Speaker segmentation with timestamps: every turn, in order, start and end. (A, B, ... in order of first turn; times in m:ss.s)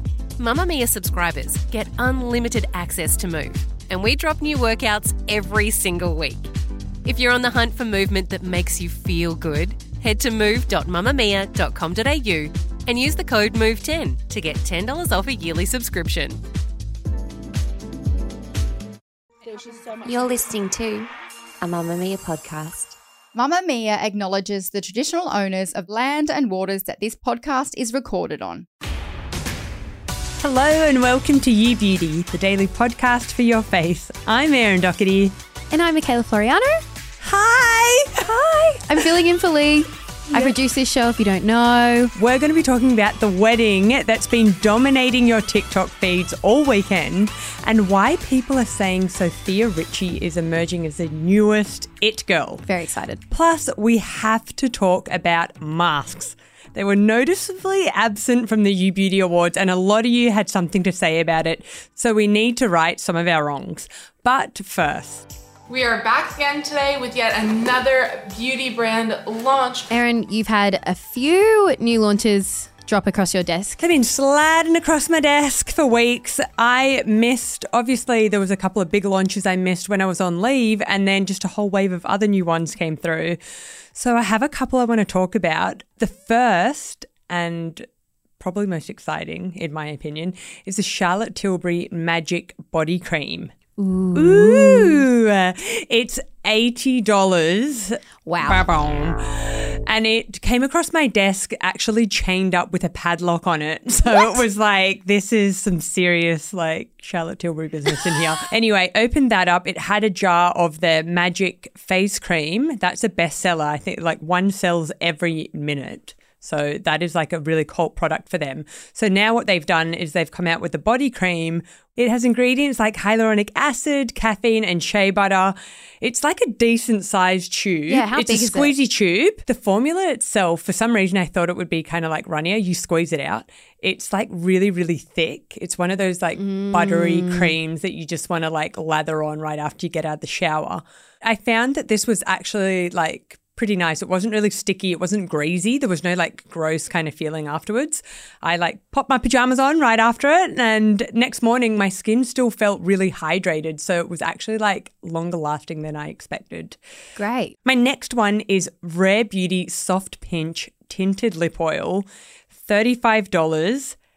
0:00.4-0:06.5 A
0:07.0-0:16.4 A
0:20.0-0:21.1 B
0:21.6-0:23.0 B
0:23.4-0:28.6 C
0:30.4-0:35.3 D
0:35.7-0:36.8 E
0:37.2-0:38.3 D
0:38.2-0:42.1 E
0:42.2-0:52.7 D
0:52.6-0:53.2 E
0:53.3-1:05.3 D
1:05.7-1:09.9 F
1:09.9-1:13.8 E
1:13.8-1:23.4 D
1:23.9-1:27.8 D
1:28.4-1:33.5 D
1:33.8-1:35.0 E
1:34.2-2:36.8 D
1:38.3-1:38.7 E
1:44.1-1:44.4 E
2:07.9-2:08.8 E
2:16.4-2:17.5 E
2:37.2-2:37.6 E
2:37.6-2:44.0 D